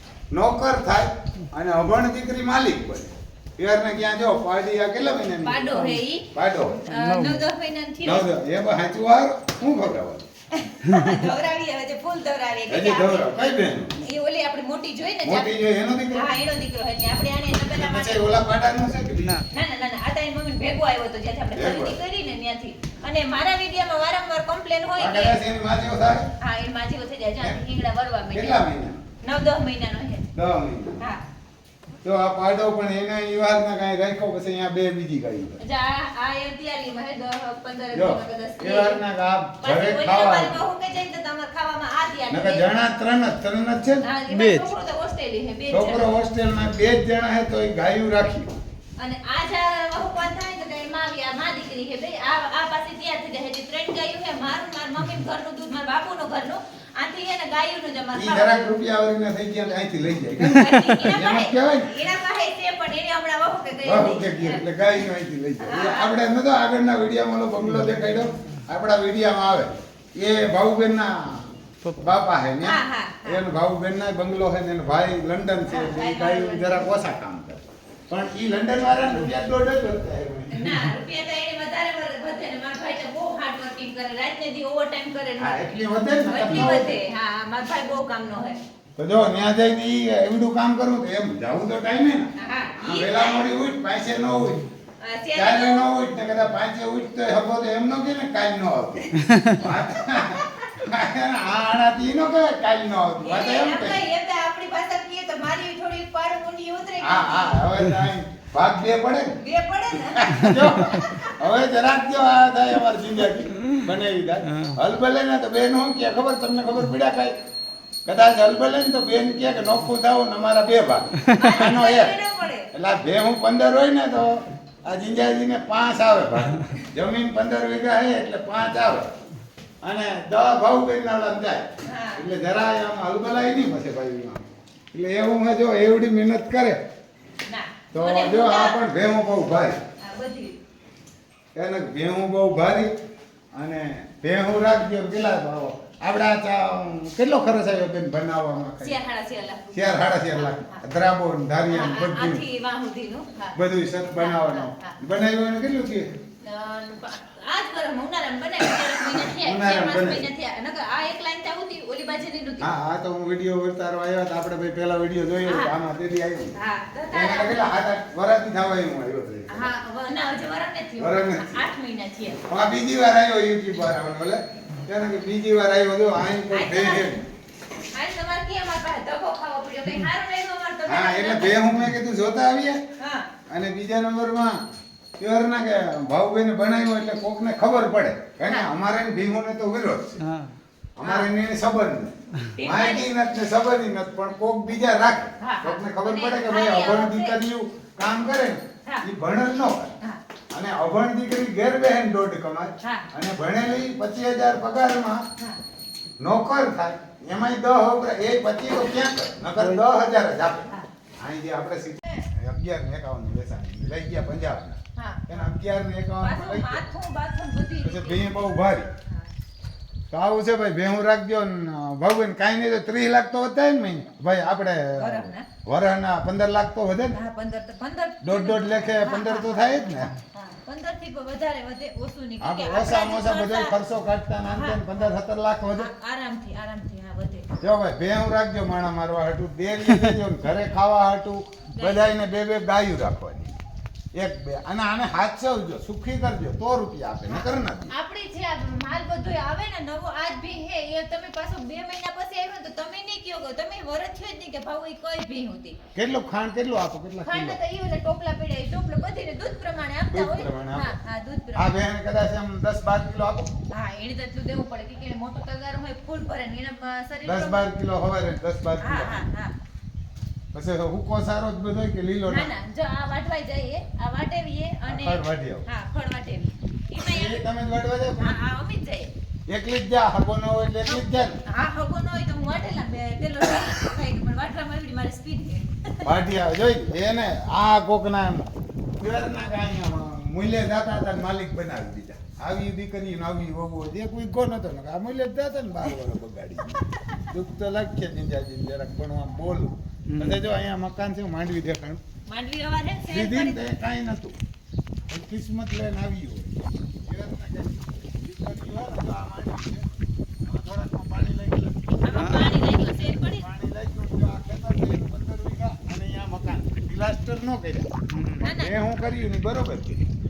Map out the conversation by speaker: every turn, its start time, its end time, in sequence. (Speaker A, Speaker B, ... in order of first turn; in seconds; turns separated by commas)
Speaker A: 0.3-6.9, Speaker B: 5.4-6.3, Speaker B: 6.9-8.3, Speaker C: 6.9-7.5, Speaker A: 8.0-10.3, Speaker B: 10.5-13.4, Speaker A: 12.7-14.0, Speaker B: 14.0-15.6, Speaker A: 15.2-16.3, Speaker B: 16.1-18.3, Speaker A: 17.7-19.4, Speaker C: 19.2-19.5, Speaker B: 19.5-25.4, Speaker A: 21.5-22.0, Speaker A: 25.0-26.3, Speaker B: 26.4-28.7, Speaker A: 28.3-29.1, Speaker B: 29.2-30.3, Speaker A: 30.3-31.0, Speaker A: 32.0-35.6, Speaker B: 35.6-39.0, Speaker A: 37.9-40.6, Speaker B: 39.6-42.7, Speaker A: 42.3-44.0, Speaker B: 44.0-46.1, Speaker C: 44.3-44.7, Speaker A: 45.7-48.5, Speaker B: 49.0-58.7, Speaker A: 58.1-62.0, Speaker B: 60.4-64.7, Speaker A: 63.8-80.8, Speaker B: 65.6-66.1, Speaker B: 72.6-73.4, Speaker B: 75.7-76.9, Speaker B: 80.5-88.6, Speaker A: 85.4-87.0, Speaker A: 89.0-92.3, Speaker B: 92.4-93.5, Speaker A: 92.8-94.7, Speaker B: 95.0-95.9, Speaker A: 95.3-104.0, Speaker B: 100.1-100.6, Speaker B: 103.2-107.7, Speaker A: 107.0-109.4, Speaker B: 109.4-111.4, Speaker A: 110.1-117.4, Speaker A: 118.1-122.2, Speaker B: 121.3-122.7, Speaker A: 122.7-129.1, Speaker A: 129.8-136.8, Speaker B: 131.9-132.3, Speaker B: 137.5-138.9, Speaker A: 137.9-139.8, Speaker B: 140.0-140.6, Speaker A: 141.6-142.9, Speaker A: 143.6-149.0, Speaker B: 148.8-150.8, Speaker A: 149.7-152.4, Speaker B: 151.7-153.6, Speaker A: 153.6-156.1, Speaker B: 154.2-155.0, Speaker B: 156.4-162.7, Speaker A: 159.0-160.3, Speaker A: 162.6-166.6, Speaker B: 165.4-165.7, Speaker B: 166.6-167.7, Speaker A: 167.1-169.8, Speaker B: 169.5-172.4, Speaker A: 171.0-171.6, Speaker A: 172.5-177.3, Speaker B: 176.5-177.1, Speaker B: 177.9-181.6, Speaker A: 180.9-182.8, Speaker B: 183.0-183.3, Speaker A: 183.5-184.6, Speaker A: 185.2-190.2, Speaker C: 190.2-190.5, Speaker A: 191.0-200.0, Speaker B: 191.0-191.3, Speaker B: 192.6-193.1, Speaker B: 195.4-197.4, Speaker A: 200.5-205.3, Speaker B: 202.8-203.1, Speaker A: 206.2-216.9, Speaker B: 215.0-215.5, Speaker B: 216.2-218.4, Speaker A: 217.8-218.9, Speaker B: 218.9-219.3, Speaker A: 220.1-227.2, Speaker B: 225.0-225.5, Speaker B: 227.1-233.8, Speaker A: 228.2-230.1, Speaker A: 232.4-235.9, Speaker B: 234.5-235.1, Speaker B: 235.8-237.5, Speaker A: 237.6-243.6, Speaker B: 241.8-242.2, Speaker A: 244.1-247.9, Speaker B: 247.3-255.8, Speaker A: 255.9-257.6, Speaker B: 257.2-261.7, Speaker A: 260.1-261.0, Speaker A: 261.5-263.5, Speaker B: 263.7-267.6, Speaker A: 267.2-269.3, Speaker B: 268.8-269.5, Speaker A: 270.5-272.5, Speaker B: 272.3-277.4, Speaker A: 274.9-275.7, Speaker A: 277.0-278.4, Speaker B: 278.2-279.1, Speaker A: 279.5-281.4, Speaker B: 280.9-286.1, Speaker A: 286.0-302.0, Speaker B: 296.7-297.2, Speaker C: 300.1-300.4, Speaker B: 302.3-303.6, Speaker A: 303.1-304.4, Speaker A: 305.1-309.9, Speaker A: 310.4-320.1, Speaker B: 312.0-313.5, Speaker C: 312.2-312.5, Speaker C: 318.1-318.4, Speaker B: 318.4-318.8